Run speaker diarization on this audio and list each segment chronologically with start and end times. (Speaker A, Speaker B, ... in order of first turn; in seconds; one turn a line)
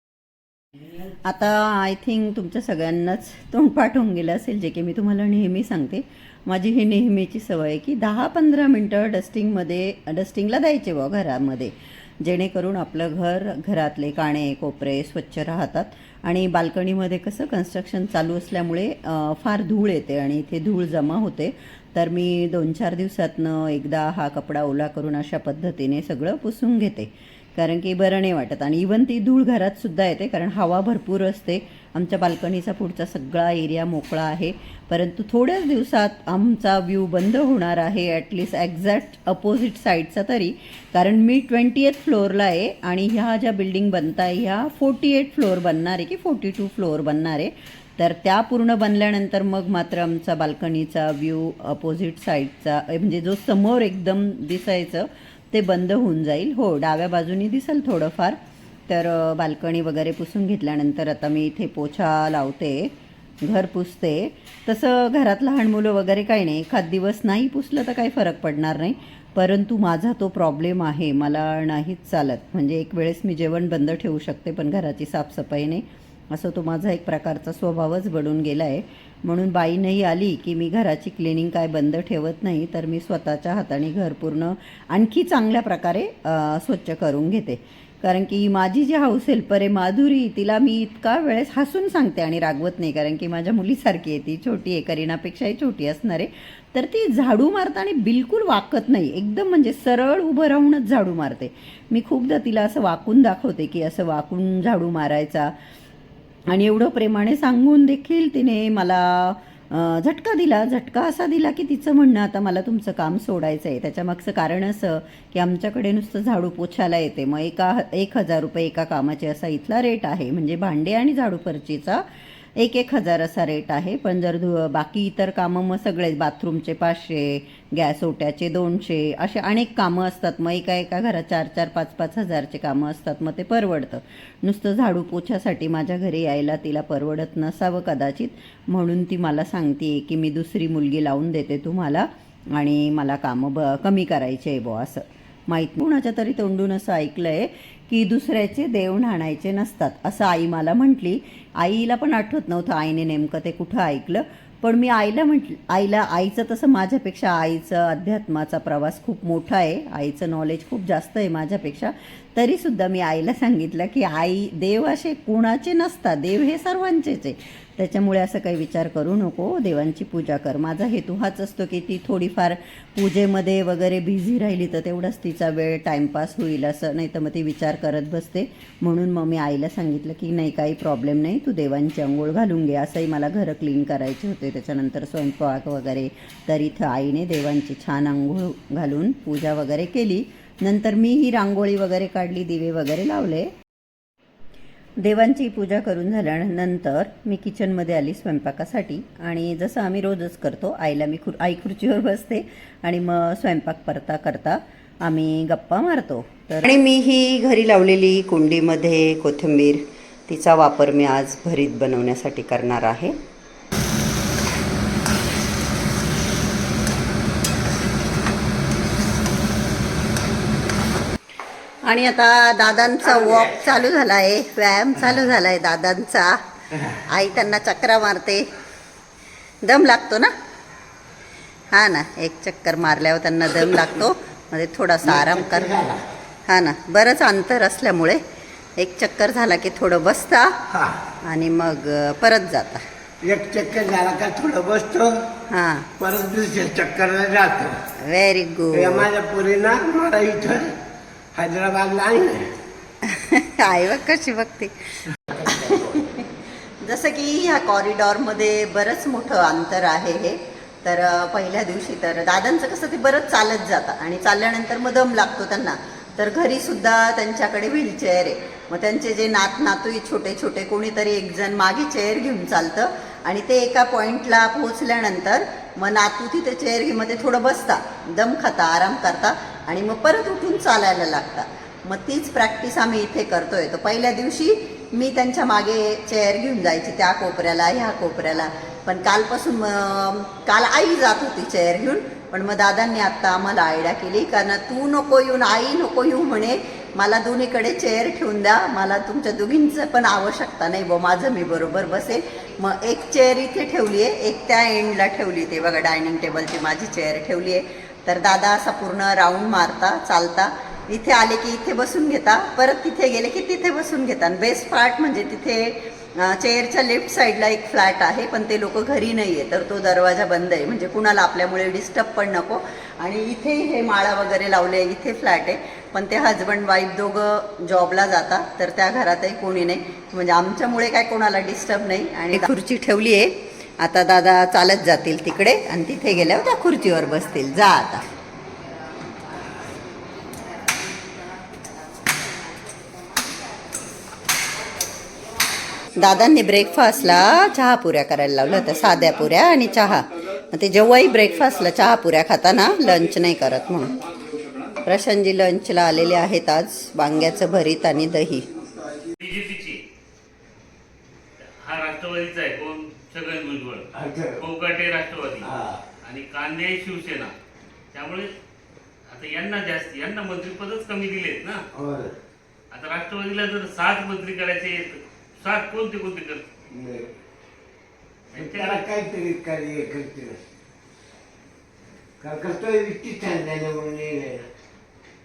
Speaker A: 1.2-62.9
Speaker A: 63.4-105.5
Speaker A: 106.5-122.0
Speaker A: 122.6-193.5
Speaker A: 195.0-213.2
Speaker A: 221.8-226.4
Speaker A: 227.1-228.5
Speaker A: 229.6-230.3
Speaker A: 231.7-235.8
Speaker B: 235.0-236.0
Speaker A: 236.5-238.2
Speaker A: 238.8-240.6
Speaker B: 240.7-241.0
Speaker A: 241.2-242.8
Speaker B: 243.2-245.2
Speaker A: 245.5-245.9
Speaker B: 246.0-247.8
Speaker A: 248.0-249.1
Speaker B: 248.7-250.7
Speaker B: 251.3-252.5
Speaker A: 253.0-256.2
Speaker B: 255.3-256.0
Speaker A: 256.8-338.1
Speaker A: 345.9-353.9
Speaker A: 354.8-358.5
Speaker C: 359.2-359.8
Speaker C: 361.4-363.9
Speaker B: 363.9-364.4
Speaker C: 364.4-365.5
Speaker B: 365.4-365.8
Speaker C: 366.0-367.3
Speaker C: 367.9-368.3
Speaker C: 369.1-371.6
Speaker B: 371.7-372.1
Speaker C: 372.7-376.4
Speaker B: 376.7-377.1
Speaker C: 378.3-378.8
Speaker B: 378.3-380.4
Speaker B: 382.2-384.4